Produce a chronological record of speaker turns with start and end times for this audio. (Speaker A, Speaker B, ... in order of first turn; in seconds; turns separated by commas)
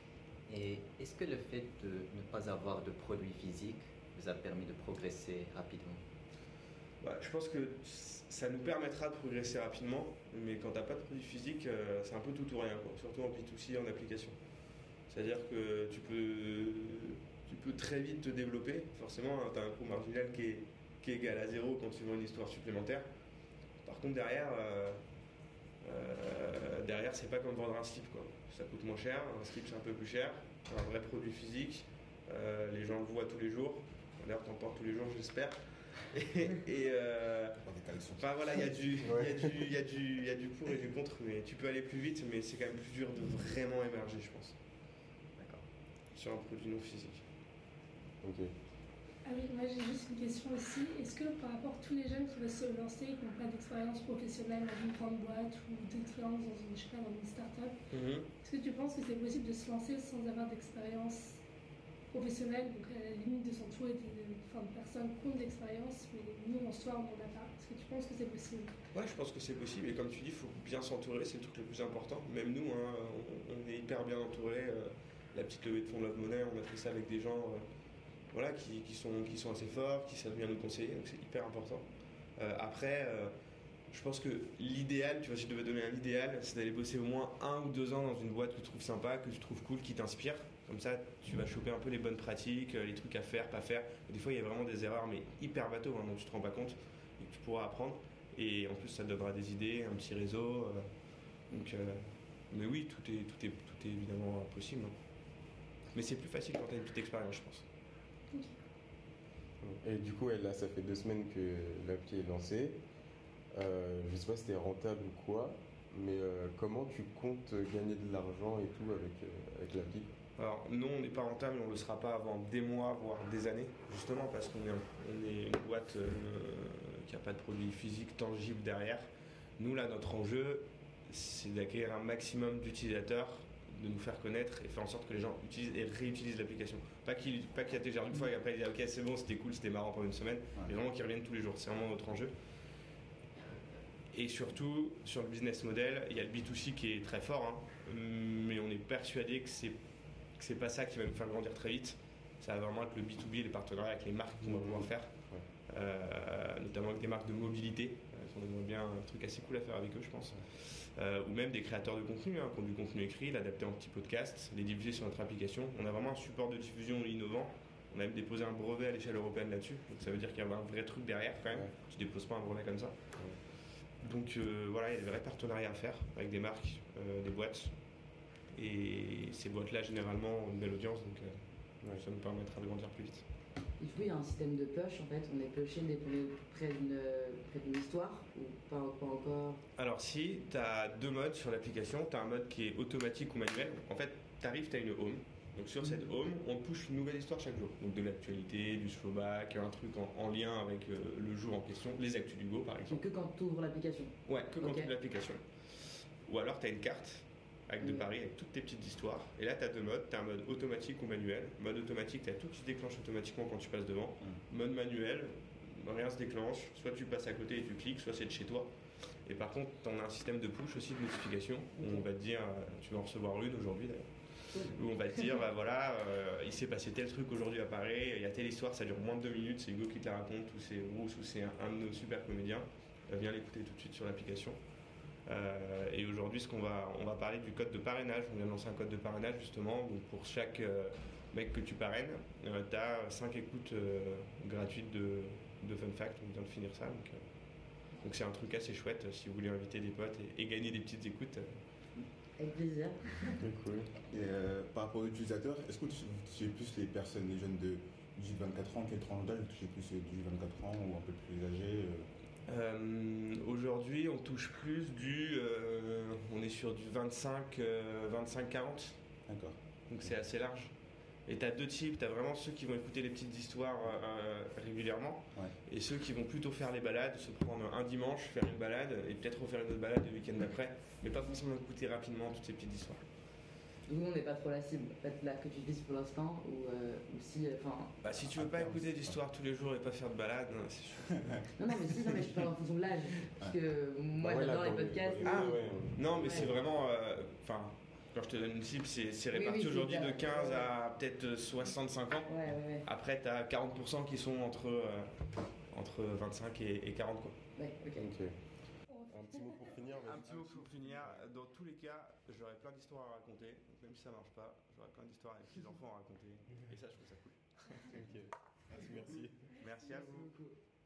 Speaker A: 0.5-6.0, Speaker B: 7.0-14.4, Speaker B: 15.1-23.1, Speaker B: 23.8-25.0, Speaker B: 25.8-37.6, Speaker C: 37.6-38.6, Speaker B: 38.2-44.6, Speaker D: 39.0-39.4, Speaker A: 45.4-45.7, Speaker B: 46.1-47.2, Speaker D: 48.2-48.5, Speaker E: 49.2-57.8, Speaker B: 57.9-58.3, Speaker E: 58.4-61.4, Speaker E: 62.1-68.7, Speaker B: 68.9-77.6, Speaker B: 78.3-81.9, Speaker B: 82.4-83.3, Speaker B: 83.9-100.9, Speaker B: 101.5-105.0, Speaker B: 105.9-107.7, Speaker E: 108.3-108.6, Speaker D: 109.6-112.8, Speaker D: 113.5-120.1, Speaker B: 120.4-129.1, Speaker B: 129.6-142.3, Speaker B: 144.1-149.8, Speaker B: 150.4-173.1, Speaker D: 154.4-155.4, Speaker B: 174.0-177.7, Speaker B: 178.5-183.2, Speaker F: 183.8-189.6, Speaker B: 189.8-203.0, Speaker F: 202.9-204.9, Speaker B: 204.3-218.7, Speaker F: 207.8-208.1, Speaker B: 219.3-234.6, Speaker F: 221.8-222.1, Speaker B: 235.3-247.2, Speaker B: 248.0-251.6, Speaker F: 252.4-253.4, Speaker D: 253.4-253.9, Speaker C: 254.1-262.1, Speaker B: 262.5-269.0, Speaker C: 269.3-270.1, Speaker B: 269.9-270.7, Speaker B: 271.3-283.1, Speaker F: 283.9-287.9, Speaker B: 288.0-291.4, Speaker C: 288.4-289.1, Speaker C: 291.1-291.4, Speaker F: 291.6-295.6, Speaker D: 294.2-296.6, Speaker B: 295.2-305.1, Speaker F: 299.3-300.7, Speaker F: 302.3-302.9, Speaker B: 305.7-307.4, Speaker F: 307.6-308.1, Speaker D: 308.0-308.4, Speaker E: 309.0-309.6, Speaker D: 309.1-311.2, Speaker B: 310.0-317.9, Speaker D: 317.9-319.4, Speaker B: 319.6-320.3, Speaker F: 320.0-320.5